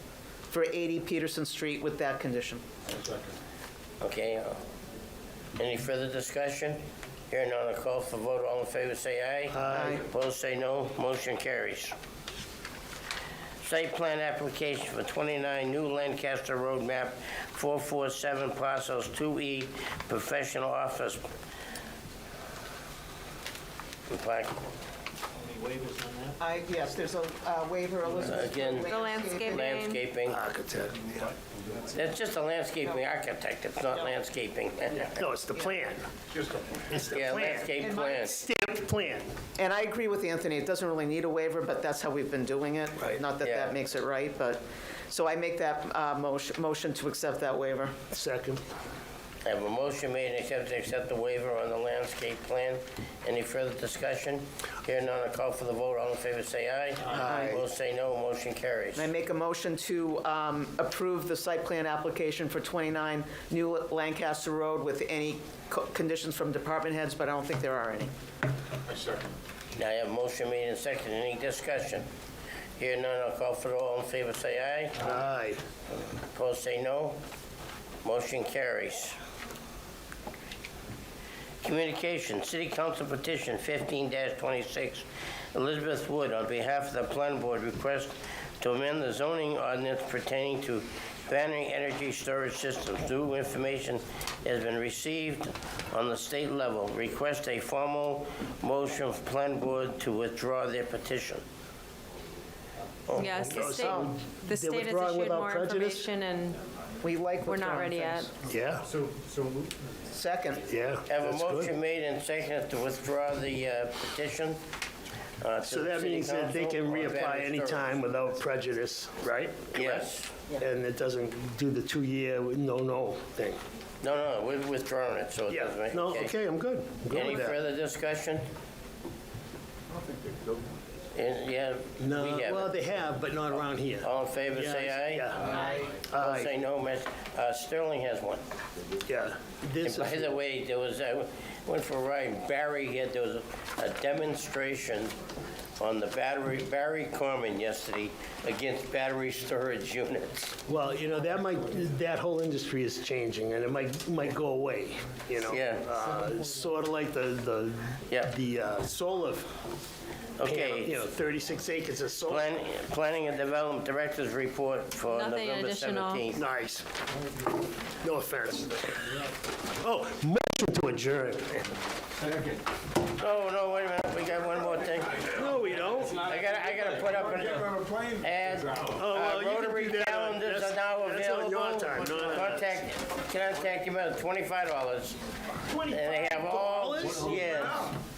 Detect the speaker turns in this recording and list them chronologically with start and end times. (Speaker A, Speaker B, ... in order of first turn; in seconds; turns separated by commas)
Speaker A: 0.5-2.6, Speaker B: 4.0-4.6, Speaker B: 5.6-11.9, Speaker C: 9.5-10.0, Speaker A: 9.7-10.0, Speaker B: 13.6-21.2, Speaker B: 24.1-24.5, Speaker D: 25.5-26.3, Speaker A: 26.4-29.9, Speaker B: 28.2-30.4, Speaker E: 28.9-30.0, Speaker C: 30.2-31.3, Speaker B: 31.9-35.2, Speaker C: 35.1-36.1, Speaker C: 36.9-39.3, Speaker B: 37.0-38.4, Speaker A: 37.8-38.2, Speaker A: 39.6-48.0, Speaker B: 43.4-43.7, Speaker C: 48.1-48.6, Speaker B: 49.4-59.1, Speaker C: 57.1-57.5, Speaker A: 57.2-57.6, Speaker A: 59.0-68.1, Speaker B: 69.8-72.0, Speaker B: 72.8-75.2, Speaker C: 75.0-75.6, Speaker B: 76.2-77.2, Speaker B: 78.0-79.2, Speaker B: 81.6-101.4, Speaker B: 103.1-103.7, Speaker E: 103.2-106.6, Speaker C: 103.5-106.1, Speaker A: 103.7-104.1, Speaker A: 107.0-108.3, Speaker E: 107.5-108.3, Speaker C: 108.5-108.9, Speaker D: 109.0-109.7, Speaker A: 110.1-110.6, Speaker C: 110.7-111.7, Speaker B: 111.1-114.6, Speaker B: 115.4-118.0, Speaker C: 115.6-120.0, Speaker B: 119.7-120.3, Speaker C: 120.6-123.6, Speaker B: 124.0-126.3, Speaker C: 125.5-127.6, Speaker B: 127.1-128.4, Speaker B: 131.1-132.8, Speaker C: 132.0-136.5, Speaker B: 134.0-138.4, Speaker C: 139.1-140.3, Speaker B: 139.8-145.1, Speaker B: 145.8-150.6, Speaker C: 150.7-159.5, Speaker B: 155.4-155.8, Speaker B: 160.4-161.0, Speaker C: 160.4-162.5, Speaker B: 162.2-166.4, Speaker E: 165.1-166.2, Speaker C: 166.3-166.8, Speaker C: 168.0-169.1, Speaker C: 169.8-171.7, Speaker B: 173.1-185.2, Speaker C: 175.2-176.2, Speaker D: 177.2-178.9, Speaker C: 178.9-182.8, Speaker C: 185.7-187.9, Speaker B: 185.9-187.9